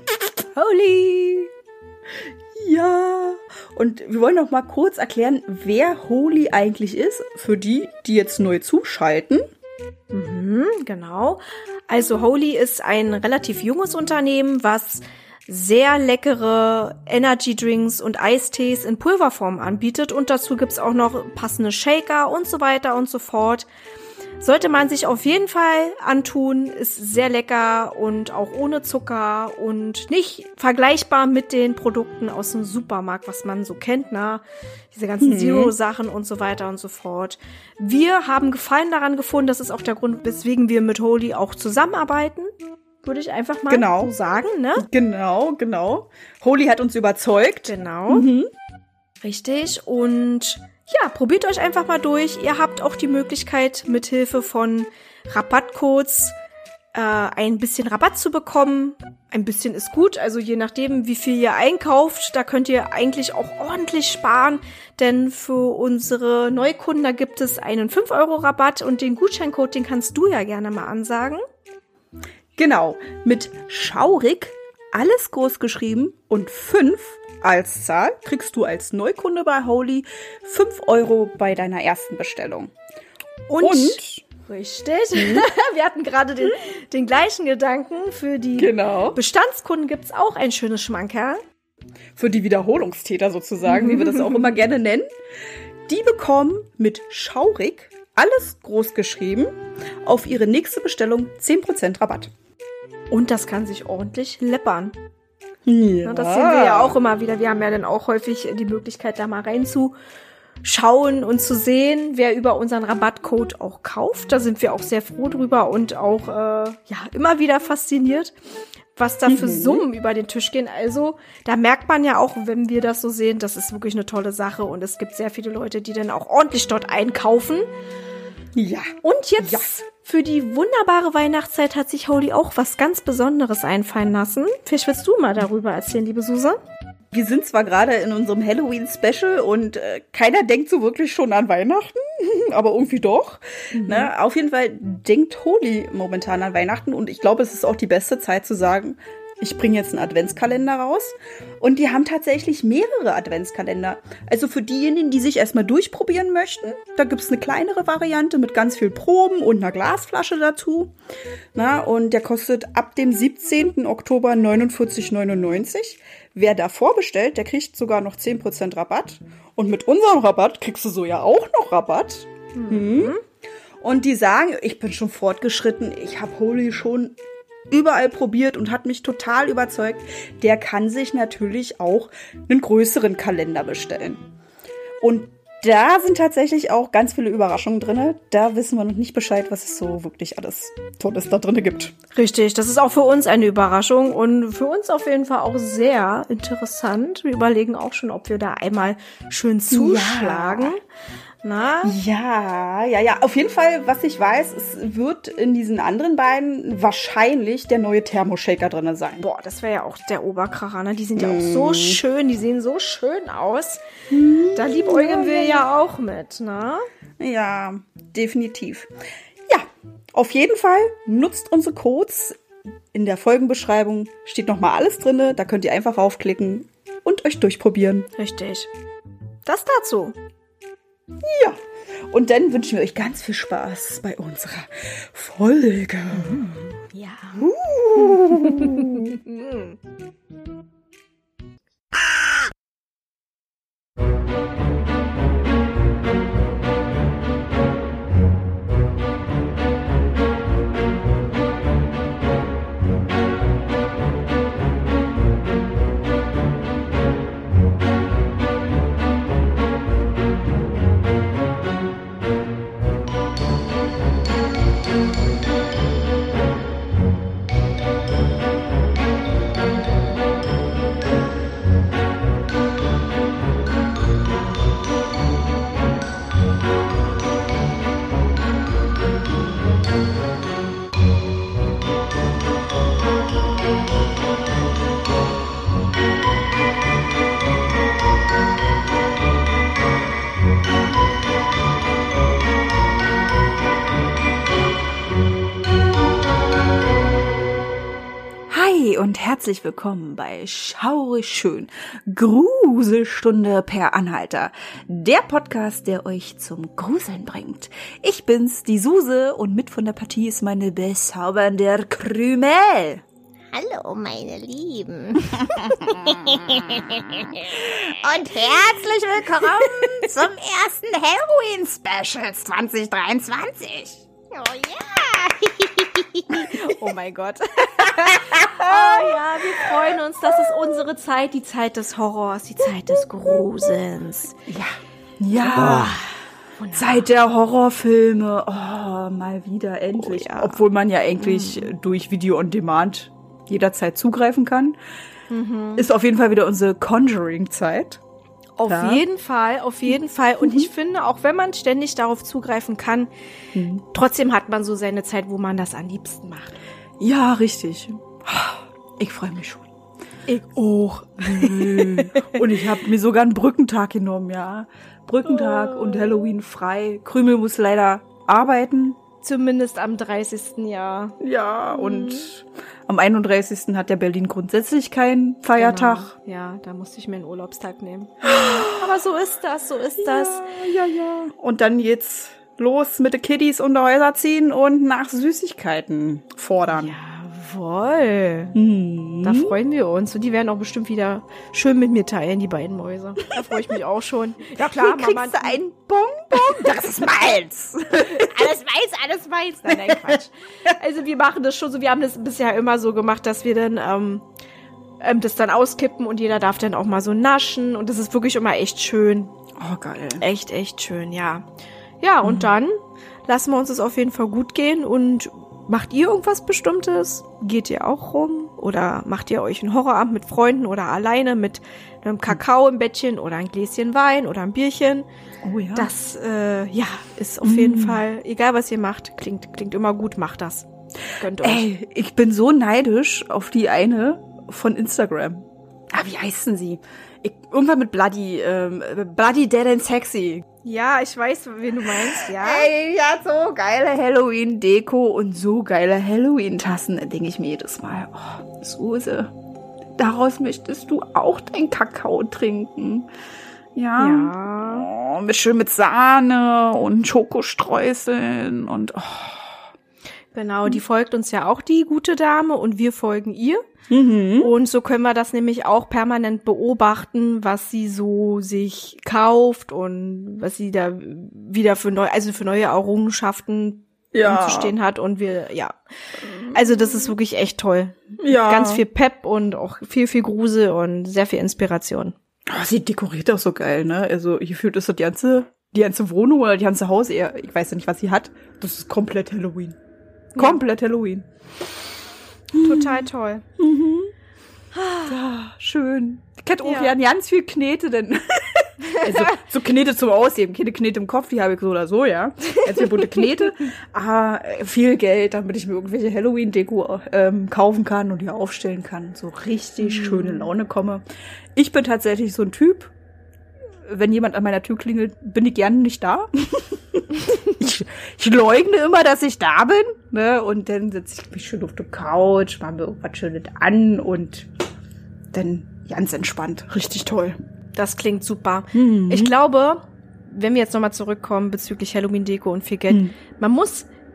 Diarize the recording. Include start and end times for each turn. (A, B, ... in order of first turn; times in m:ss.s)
0:00.6-0:01.5 A
0:02.5-0:09.5 B
0:10.1-0:23.7 A
0:24.4-0:44.8 A
0:35.2-0:35.7 B
0:43.7-0:44.1 B
0:44.8-0:48.5 B
0:47.7-0:48.3 A
0:49.2-0:56.4 A
0:56.9-1:11.4 A
1:12.6-1:22.7 B
1:23.5-1:31.4 A
1:23.6-1:24.2 B
1:28.6-1:29.2 B
1:32.2-1:35.1 B
1:33.7-1:34.5 A
1:35.9-1:42.3 B
1:43.1-1:45.0 A
1:45.7-1:47.0 B
1:46.0-1:50.0 A
1:50.6-1:58.4 A
1:59.0-2:07.7 A
1:59.3-1:59.8 B
2:08.6-2:09.7 B
2:09.0-2:16.6 A
2:17.1-2:40.9 B
2:23.8-2:24.1 A
2:41.6-2:53.2 B
2:52.6-2:53.2 A
2:53.8-2:57.2 B
2:57.7-3:04.2 B
3:05.0-3:11.9 B
3:12.2-3:20.8 A
3:19.7-3:20.8 B
3:21.4-3:22.0 A
3:21.8-3:29.2 B
3:29.2-3:33.8 A
3:31.2-3:32.0 B
3:34.1-3:35.6 B
3:34.6-3:36.9 A
3:37.2-3:38.9 B
3:39.5-3:42.4 B
3:42.9-3:48.1 B
3:48.2-3:48.7 A
3:49.4-3:50.2 A
3:51.2-3:51.6 B
3:52.1-3:56.6 B
3:56.9-3:59.8 A
3:57.4-3:59.2 B
4:58.5-5:13.0 B
5:13.5-5:18.9 C
5:15.4-5:24.1 B
5:24.3-5:26.2 C
5:26.3-5:34.4 A
5:28.3-5:29.1 B
5:34.5-5:36.0 B
5:35.4-5:37.1 A
5:36.7-5:44.8 B
5:40.0-5:40.6 A
5:41.2-5:41.7 A
5:45.3-5:45.8 A
5:45.8-5:48.0 B
5:48.6-5:53.1 A
5:48.7-5:49.0 B
5:50.4-5:50.7 B
5:53.5-5:53.8 B
5:53.9-5:56.6 A
5:57.0-5:59.7 B
6:00.3-6:02.6 A
6:01.2-6:09.0 B
6:05.3-6:06.2 A
6:09.2-6:11.2 A
6:11.2-6:16.1 B
6:11.7-6:12.3 A
6:15.6-6:20.5 A
6:18.2-6:18.8 B
6:20.0-6:27.0 B
6:26.7-6:28.6 A
6:28.6-6:29.6 B
6:29.2-6:35.6 A
6:34.6-6:38.4 B
6:36.3-6:36.9 A
6:37.9-6:44.3 A
6:39.7-6:40.2 B
6:45.0-6:49.4 A
6:49.6-6:50.2 B
6:50.2-6:51.5 A
6:52.0-7:05.1 A
6:52.2-6:52.5 B
7:05.4-7:05.9 B
7:05.8-7:10.7 A
7:07.4-7:08.0 B
7:11.2-7:11.7 A
7:11.4-7:20.4 B
7:20.6-7:22.7 A
7:22.0-7:29.3 B
7:30.0-7:33.1 B
7:33.8-7:39.6 B
7:34.0-7:34.9 A
7:40.3-7:43.7 A
7:43.9-7:44.5 B
7:44.4-7:55.8 A
7:54.1-7:54.7 B
7:56.5-8:02.2 A
7:58.2-7:58.8 B
8:02.5-8:09.8 B
8:10.4-8:10.6 A
8:10.4-8:11.3 B
8:12.5-8:13.0 B
8:12.6-8:13.4 A
8:13.6-8:14.1 B
8:14.7-8:15.2 A
8:15.0-8:31.0 B
8:16.6-8:16.9 A
8:18.8-8:19.4 A
8:22.8-8:23.2 A
8:29.8-8:30.5 A
8:31.6-8:32.9 B
8:33.8-8:44.5 B
8:45.3-8:47.4 B
8:47.8-8:53.9 A
8:48.7-8:49.3 B
8:52.9-8:53.2 B